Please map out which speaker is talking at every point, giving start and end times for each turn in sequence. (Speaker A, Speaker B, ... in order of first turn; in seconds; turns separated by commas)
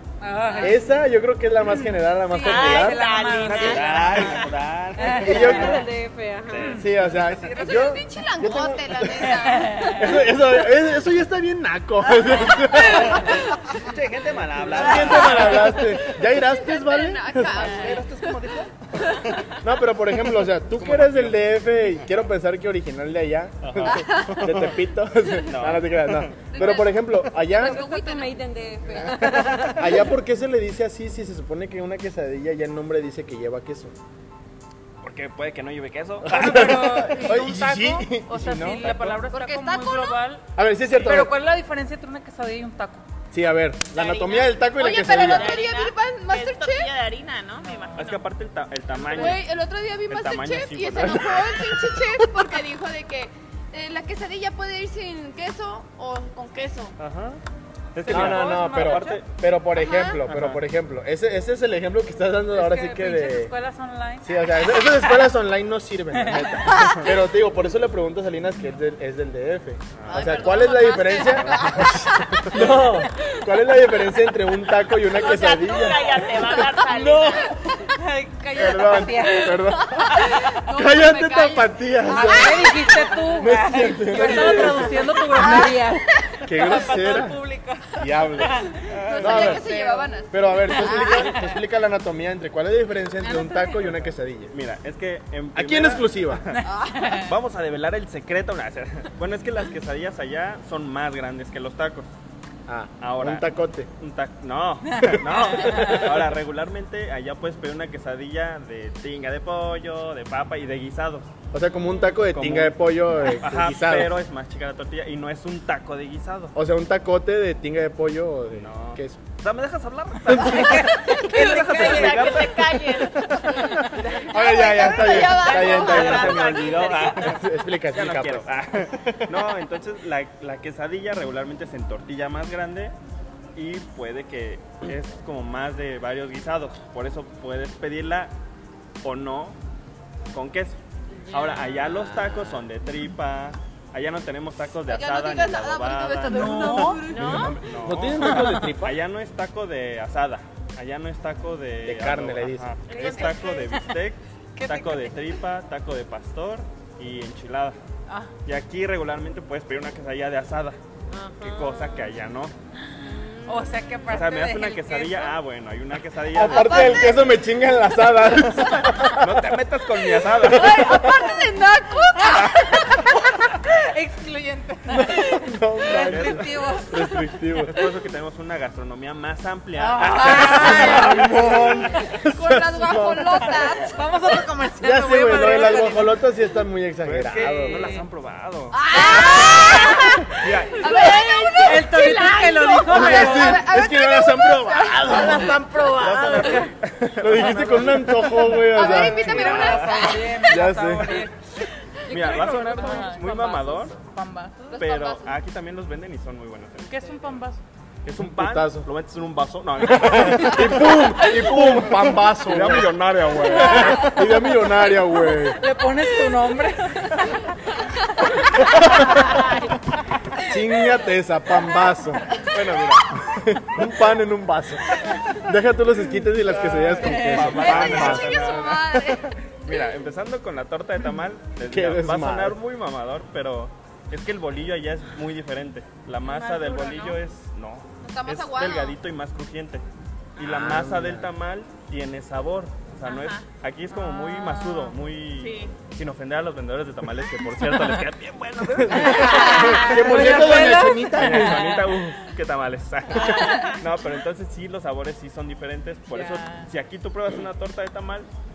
Speaker A: 0.2-0.8, Speaker B: 0.5-0.8, Speaker C: 0.6-3.1, Speaker A: 2.1-5.8, Speaker D: 2.4-4.5, Speaker E: 3.4-5.8, Speaker B: 5.1-7.0, Speaker C: 5.2-5.9, Speaker E: 6.5-6.9, Speaker A: 6.6-7.9, Speaker C: 6.8-13.5, Speaker F: 7.4-10.2, Speaker A: 9.5-10.0, Speaker E: 12.8-15.8, Speaker C: 14.6-17.9, Speaker F: 15.2-18.5, Speaker E: 17.5-19.6, Speaker C: 19.6-27.9, Speaker E: 20.8-22.2, Speaker E: 23.6-24.8, Speaker F: 24.0-24.4, Speaker E: 25.4-26.6, Speaker F: 26.5-28.4, Speaker B: 27.5-30.1, Speaker C: 29.1-34.0, Speaker E: 35.0-36.9, Speaker A: 36.2-40.4, Speaker C: 36.2-39.2, Speaker F: 39.2-40.2, Speaker C: 40.6-41.3, Speaker A: 41.0-43.0, Speaker C: 43.3-45.6, Speaker D: 43.9-44.6, Speaker F: 44.7-46.9, Speaker D: 45.1-48.3, Speaker A: 47.6-48.1, Speaker E: 48.0-49.5, Speaker F: 49.1-57.0, Speaker E: 50.1-52.0, Speaker E: 57.0-57.4, Speaker E: 58.0-59.3, Speaker A: 58.0-59.2, Speaker C: 58.1-63.5, Speaker F: 59.8-60.2, Speaker E: 60.2-60.6, Speaker A: 62.5-65.1, Speaker C: 64.2-77.9, Speaker A: 66.1-67.0, Speaker E: 70.0-70.6, Speaker F: 70.1-72.5, Speaker E: 71.2-72.7, Speaker D: 75.1-77.5, Speaker A: 77.9-79.8, Speaker C: 78.5-82.8, Speaker F: 80.0-83.3, Speaker A: 82.1-90.1, Speaker C: 83.3-85.7, Speaker F: 85.4-85.7, Speaker C: 86.4-87.4, Speaker C: 88.0-88.7, Speaker E: 88.9-89.6, Speaker F: 89.1-91.5, Speaker C: 89.2-89.7, Speaker C: 90.3-94.5, Speaker A: 90.7-91.5, Speaker A: 93.2-93.8, Speaker E: 94.5-102.1, Speaker C: 95.5-96.4, Speaker A: 96.5-97.3, Speaker F: 96.7-97.1, Speaker C: 102.7-103.9, Speaker E: 103.0-111.3, Speaker A: 104.9-106.1, Speaker C: 105.0-106.3, Speaker C: 111.5-114.2, Speaker E: 112.2-116.5, Speaker C: 116.5-119.2, Speaker E: 118.6-123.6, Speaker C: 120.3-121.0, Speaker A: 120.4-122.3, Speaker D: 121.5-123.6, Speaker C: 123.7-128.5, Speaker F: 124.2-126.4, Speaker D: 124.8-127.3, Speaker E: 125.6-132.9, Speaker E: 133.6-138.3, Speaker E: 139.0-139.6, Speaker E: 140.3-140.8, Speaker B: 141.2-141.9, Speaker E: 141.3-157.8, Speaker C: 142.0-142.7, Speaker F: 144.9-147.5, Speaker A: 146.2-147.4, Speaker C: 147.1-149.0, Speaker B: 147.1-147.5, Speaker A: 148.2-148.7, Speaker C: 151.8-152.7, Speaker D: 152.9-153.3, Speaker A: 152.9-153.9, Speaker B: 153.0-153.3, Speaker A: 154.6-155.2, Speaker E: 158.4-160.8, Speaker B: 161.1-162.2, Speaker E: 161.4-162.5, Speaker B: 163.0-164.0, Speaker A: 163.5-165.4, Speaker E: 164.1-167.3, Speaker C: 166.3-169.6, Speaker F: 166.5-167.2, Speaker E: 168.6-171.1, Speaker C: 170.3-171.4, Speaker F: 170.6-173.1, Speaker A: 171.1-171.3, Speaker A: 171.9-177.3, Speaker E: 172.4-172.7, Speaker C: 174.9-177.8, Speaker E: 176.0-176.5, Speaker E: 177.6-181.3, Speaker A: 179.8-181.7, Speaker C: 180.3-183.7, Speaker F: 182.2-184.0, Speaker A: 183.8-186.2, Speaker C: 184.8-187.9, Speaker E: 187.0-191.3, Speaker A: 187.4-188.1, Speaker F: 188.7-195.6, Speaker A: 191.6-193.7, Speaker C: 192.9-199.7, Speaker E: 195.2-200.1, Speaker A: 198.2-201.4, Speaker F: 198.5-200.3, Speaker C: 200.4-201.2, Speaker A: 202.1-204.8, Speaker E: 202.1-204.0, Speaker B: 202.1-203.8, Speaker F: 204.7-205.3, Speaker E: 204.8-207.2, Speaker A: 206.9-207.6, Speaker E: 208.1-214.3, Speaker C: 208.2-208.9, Speaker C: 209.8-215.6, Speaker A: 213.5-214.2, Speaker A: 215.6-217.8, Speaker A: 218.5-219.3, Speaker C: 218.6-219.5, Speaker C: 220.4-222.4, Speaker E: 222.4-223.1, Speaker C: 223.2-228.5, Speaker A: 226.5-228.0, Speaker E: 226.6-239.8, Speaker F: 227.6-229.3, Speaker C: 231.6-232.6, Speaker D: 236.2-237.2, Speaker F: 238.0-239.0, Speaker E: 240.4-258.3, Speaker C: 240.4-241.3, Speaker D: 243.0-243.5, Speaker A: 243.9-245.0, Speaker D: 245.4-245.8, Speaker C: 248.8-252.0, Speaker A: 248.9-252.0, Speaker D: 253.1-253.8, Speaker A: 253.2-253.8, Speaker A: 256.1-256.7